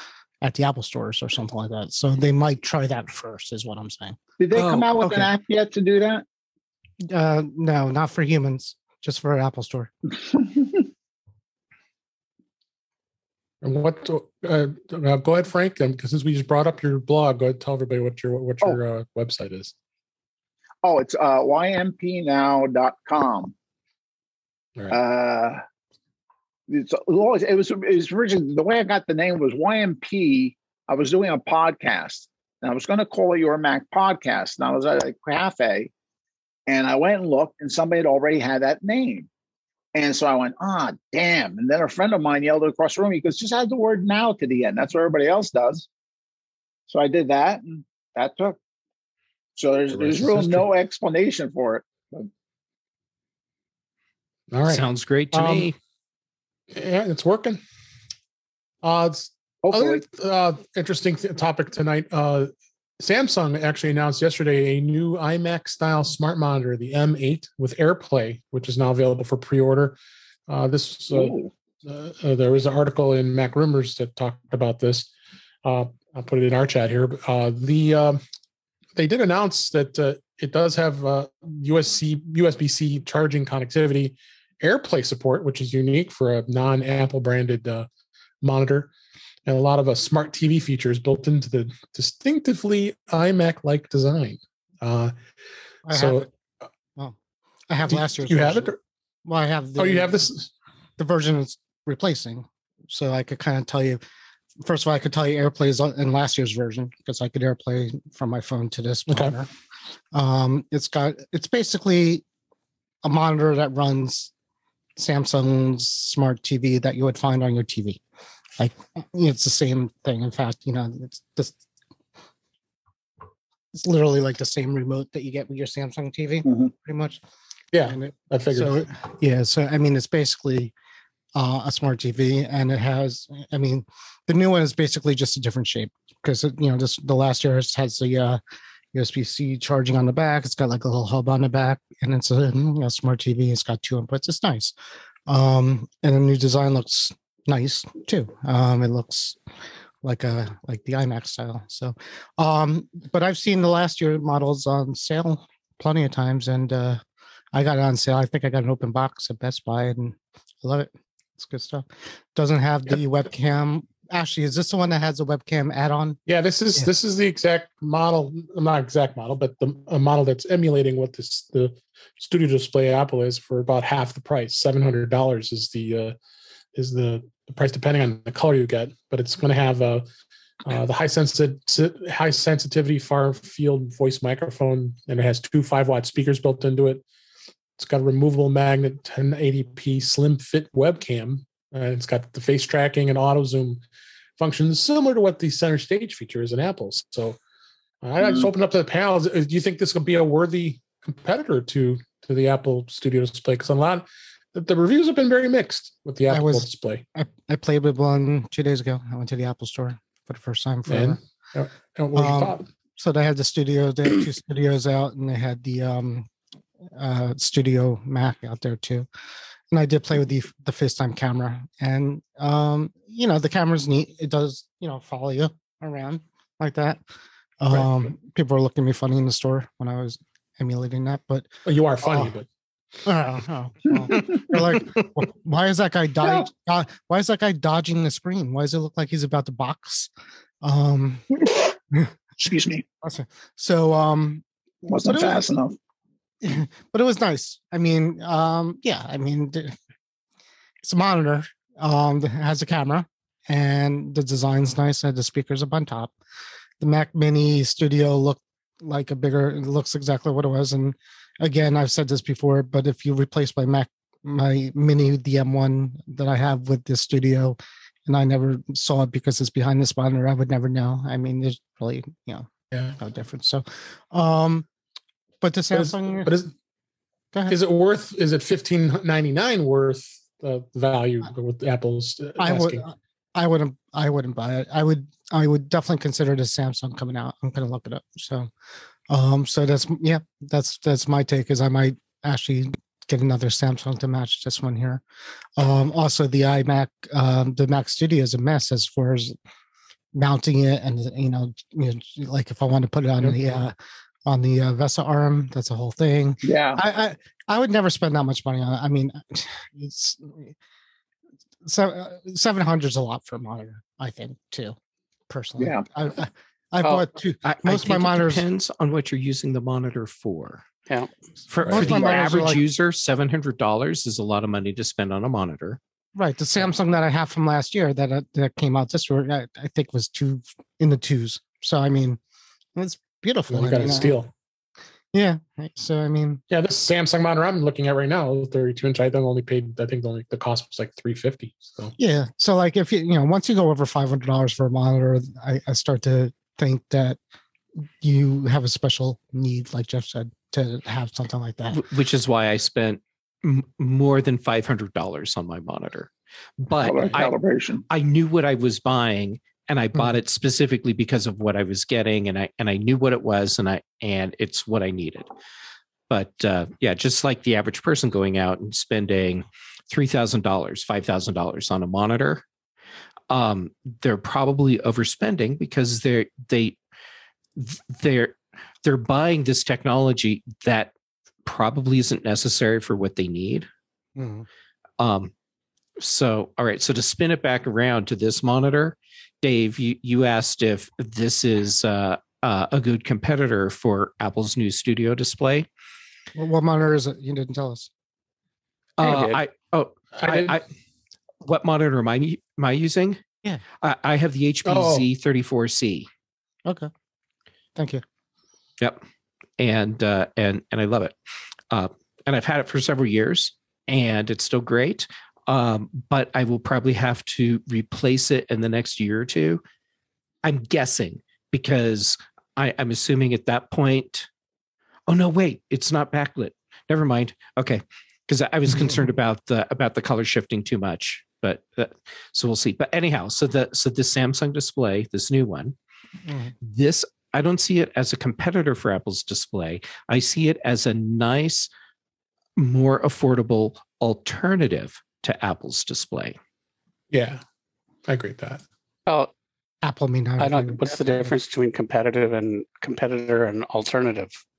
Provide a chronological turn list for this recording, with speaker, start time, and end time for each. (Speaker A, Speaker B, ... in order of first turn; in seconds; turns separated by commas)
Speaker A: 0.4-4.2, Speaker B: 4.4-6.2, Speaker A: 7.1-9.9, Speaker C: 13.6-19.7, Speaker B: 20.8-23.5, Speaker B: 24.9-25.6, Speaker B: 26.7-35.9, Speaker B: 36.7-39.3, Speaker B: 39.9-45.9, Speaker B: 46.9-48.6, Speaker B: 49.6-52.3, Speaker C: 49.9-50.7, Speaker C: 54.5-55.7, Speaker D: 54.7-55.8, Speaker C: 56.7-57.6, Speaker C: 58.8-70.0, Speaker B: 59.6-60.0, Speaker C: 70.5-75.1, Speaker B: 71.1-71.5, Speaker C: 75.6-78.2, Speaker C: 79.0-87.9, Speaker C: 88.4-88.9, Speaker C: 89.5-95.1, Speaker A: 95.9-96.3, Speaker C: 95.9-96.3, Speaker A: 97.7-98.7, Speaker C: 97.9-98.8, Speaker A: 99.2-100.2, Speaker C: 99.8-100.5, Speaker A: 101.0-104.0, Speaker A: 104.6-109.5, Speaker C: 109.1-109.3, Speaker A: 110.1-112.2, Speaker A: 113.0-114.3, Speaker A: 115.0-118.0, Speaker A: 118.6-121.6, Speaker A: 123.7-127.2, Speaker B: 126.5-126.7, Speaker C: 127.7-128.8, Speaker A: 127.9-130.7, Speaker A: 131.3-138.4, Speaker A: 138.9-144.7, Speaker A: 145.3-149.4, Speaker A: 150.0-157.0, Speaker A: 157.5-166.2, Speaker C: 166.3-176.2, Speaker C: 176.8-180.1, Speaker C: 180.7-187.0, Speaker C: 187.8-193.8, Speaker C: 194.4-197.4, Speaker C: 198.0-207.0, Speaker A: 206.3-211.2, Speaker C: 210.9-212.7, Speaker A: 212.1-216.3, Speaker A: 216.9-219.1, Speaker A: 219.7-227.0, Speaker A: 227.6-232.3, Speaker C: 227.7-228.0, Speaker C: 231.7-232.5, Speaker A: 233.1-240.1, Speaker A: 240.6-242.1, Speaker B: 242.4-242.8, Speaker A: 243.0-244.4, Speaker B: 244.8-245.8, Speaker A: 245.1-245.4, Speaker A: 246.4-249.8, Speaker A: 250.8-256.1, Speaker A: 256.8-274.7, Speaker C: 272.7-273.0, Speaker A: 275.4-276.3, Speaker C: 275.7-276.5, Speaker C: 277.5-282.8, Speaker A: 282.4-288.5, Speaker A: 289.1-295.0, Speaker A: 295.6-299.4, Speaker A: 300.1-303.8, Speaker C: 303.2-303.6, Speaker A: 304.3-310.6, Speaker B: 306.4-306.8, Speaker A: 311.6-314.8, Speaker A: 315.3-318.4, Speaker B: 315.6-315.9, Speaker D: 317.4-320.6, Speaker D: 321.5-325.8, Speaker A: 321.7-322.6, Speaker A: 326.1-332.2, Speaker A: 332.8-334.2, Speaker C: 333.5-334.3, Speaker A: 335.1-336.4, Speaker C: 336.5-341.9, Speaker A: 342.0-347.2, Speaker A: 347.8-351.8, Speaker D: 351.7-357.4, Speaker B: 356.8-357.8, Speaker D: 357.9-365.3, Speaker D: 366.1-372.4, Speaker D: 373.3-376.8, Speaker D: 377.6-380.9, Speaker D: 381.4-383.7, Speaker A: 384.2-384.5, Speaker D: 385.0-385.3, Speaker D: 386.0-395.7, Speaker A: 396.4-397.9, Speaker D: 399.0-400.6, Speaker E: 399.0-399.4, Speaker C: 400.1-400.6, Speaker D: 401.4-403.2, Speaker D: 403.8-406.1, Speaker C: 404.7-405.1, Speaker A: 407.8-408.0, Speaker D: 409.6-411.1, Speaker D: 411.7-419.6, Speaker D: 420.4-424.3, Speaker D: 425.1-435.8, Speaker A: 436.3-436.5, Speaker D: 436.6-441.7, Speaker D: 442.6-446.4, Speaker C: 447.1-447.4, Speaker C: 448.1-448.6, Speaker A: 449.8-450.9, Speaker E: 450.4-454.4